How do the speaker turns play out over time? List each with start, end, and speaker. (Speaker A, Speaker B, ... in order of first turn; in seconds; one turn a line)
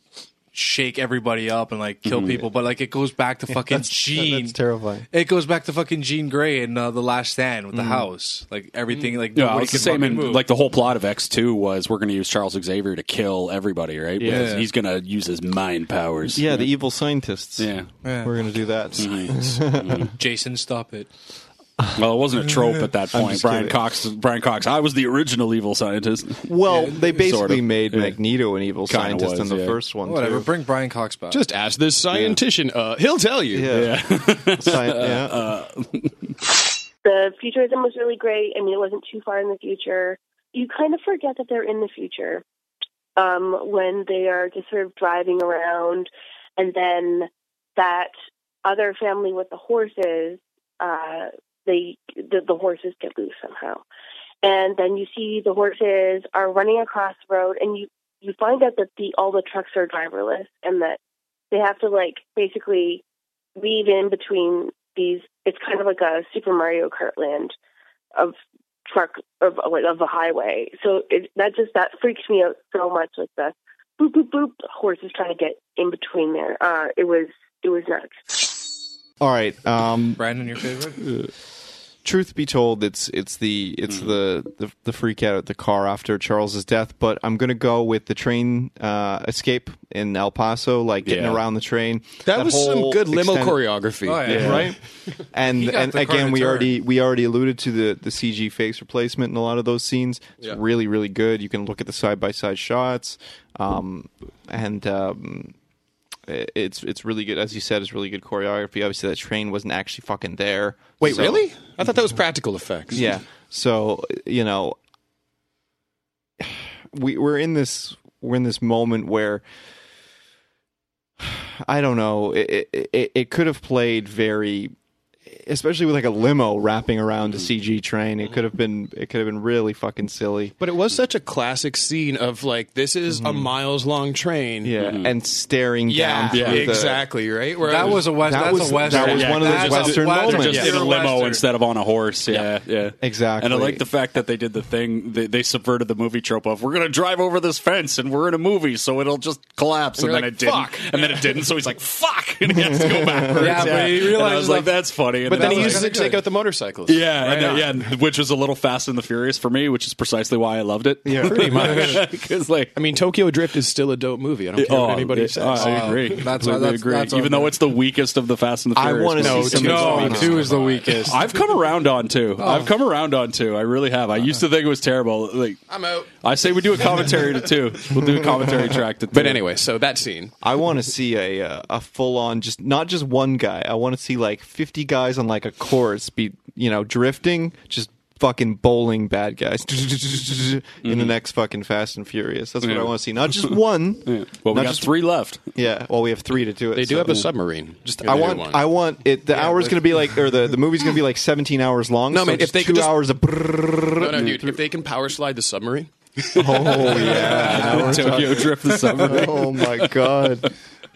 Speaker A: 0.5-4.6
Speaker B: 2.1-2.5
Speaker C: 3.7-5.1
Speaker A: 5.1-10.5
Speaker C: 7.7-8.1
Speaker B: 9.3-16.7
Speaker C: 14.2-14.5
Speaker A: 14.3-14.7
Speaker C: 16.3-20.1
Speaker B: 17.6-17.9
Speaker A: 18.0-18.3
Speaker B: 19.0-20.1
Speaker A: 20.2-21.1
Speaker B: 21.9-28.2
Speaker C: 23.1-23.8
Speaker C: 26.5-30.5
Speaker B: 28.9-29.8
Speaker A: 30.1-31.4
Speaker D: 31.3-33.7
Speaker C: 33.5-35.4
Speaker B: 33.7-36.3
Speaker E: 37.0-42.4
Speaker E: 43.2-48.1
Speaker E: 48.6-53.8
Speaker E: 54.4-61.0
Speaker E: 61.5-63.0
Speaker E: 63.6-67.5
Speaker E: 68.9-78.2
Speaker C: 79.2-80.2
Speaker A: 80.2-81.0
Speaker C: 82.0-93.6
Speaker B: 91.0-91.4
Speaker D: 92.3-95.2
Speaker A: 94.0-94.7
Speaker C: 94.2-94.8
Speaker B: 94.3-94.7
Speaker C: 95.3-105.5
Speaker A: 95.5-96.8
Speaker C: 106.3-111.5
Speaker D: 111.0-113.1
Speaker C: 112.9-114.8
Speaker C: 116.4-119.4
Speaker C: 121.2-124.7
Speaker C: 125.3-130.6
Speaker D: 130.6-134.8
Speaker C: 133.2-133.5
Speaker C: 134.6-137.0
Speaker B: 134.8-135.1
Speaker D: 135.9-138.1
Speaker B: 136.3-136.8
Speaker A: 137.7-141.4
Speaker C: 138.0-140.7
Speaker B: 138.8-155.9
Speaker D: 140.4-141.2
Speaker C: 143.0-143.8
Speaker D: 150.0-151.4
Speaker C: 153.1-153.5
Speaker A: 153.3-156.2
Speaker D: 155.2-157.8
Speaker B: 156.9-162.7
Speaker C: 161.1-161.8
Speaker D: 161.2-162.1
Speaker D: 162.8-166.3
Speaker B: 164.6-175.6
Speaker A: 165.6-167.6
Speaker C: 168.8-170.5
Speaker D: 169.2-171.1
Speaker A: 169.4-171.2
Speaker A: 172.4-172.7
Speaker D: 172.4-172.7
Speaker D: 175.7-177.7
Speaker B: 176.2-179.4
Speaker D: 179.1-180.3
Speaker C: 180.4-194.9
Speaker B: 190.8-191.1
Speaker B: 192.6-195.6
Speaker C: 195.5-197.3
Speaker D: 196.8-198.6
Speaker C: 198.0-204.1
Speaker D: 199.3-200.0
Speaker D: 202.1-203.1
Speaker D: 204.0-207.7
Speaker B: 204.1-204.5
Speaker C: 206.3-210.5
Speaker A: 206.8-209.3
Speaker B: 207.0-210.4